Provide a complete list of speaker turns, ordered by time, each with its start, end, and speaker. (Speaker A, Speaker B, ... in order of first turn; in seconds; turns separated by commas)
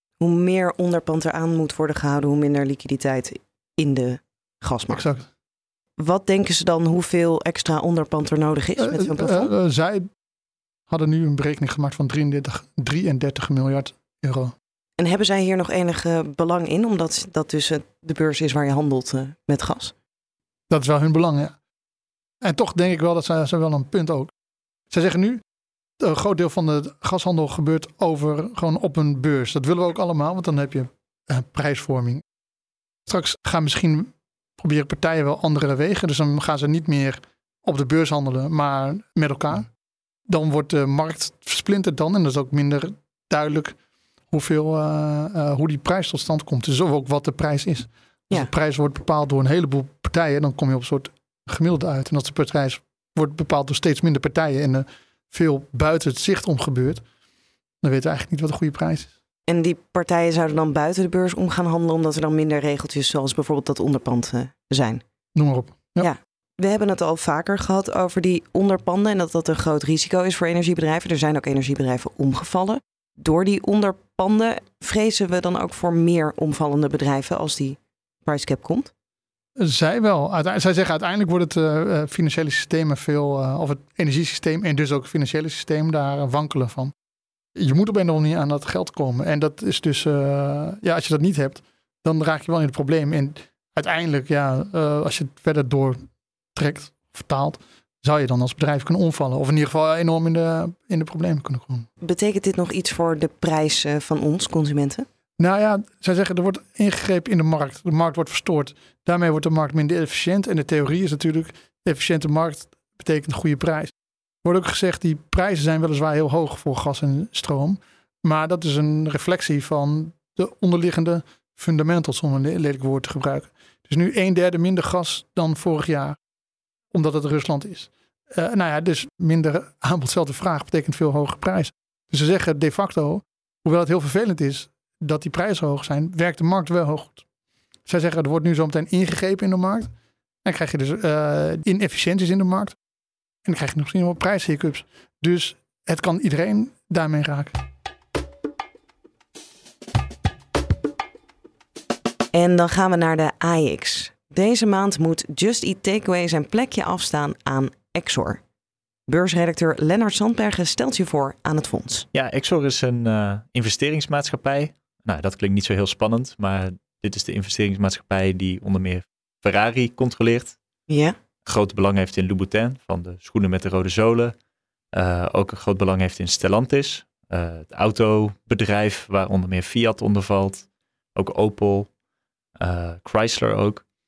Speaker A: 0.2-5.1, Speaker B: 5.0-5.3, Speaker A: 6.0-9.5, Speaker B: 8.8-10.1, Speaker B: 10.9-14.6, Speaker A: 15.0-19.9, Speaker B: 20.7-21.5, Speaker B: 22.4-24.3, Speaker B: 24.9-25.4, Speaker B: 26.0-32.2, Speaker B: 33.1-39.7, Speaker B: 40.3-43.8, Speaker B: 44.3-57.0, Speaker B: 57.8-59.1, Speaker A: 59.5-65.0, Speaker B: 65.3-66.1, Speaker A: 66.0-78.9, Speaker B: 79.6-86.9, Speaker B: 87.5-101.9, Speaker A: 102.0-105.1, Speaker B: 105.4-113.9, Speaker B: 114.4-126.2, Speaker B: 126.9-137.2, Speaker B: 137.9-139.9, Speaker B: 140.4-142.8, Speaker B: 143.5-147.6, Speaker A: 152.3-158.4, Speaker A: 159.1-162.1, Speaker C: 162.1-170.6, Speaker A: 170.9-171.2, Speaker C: 171.4-174.3, Speaker C: 174.9-181.9, Speaker C: 182.6-183.8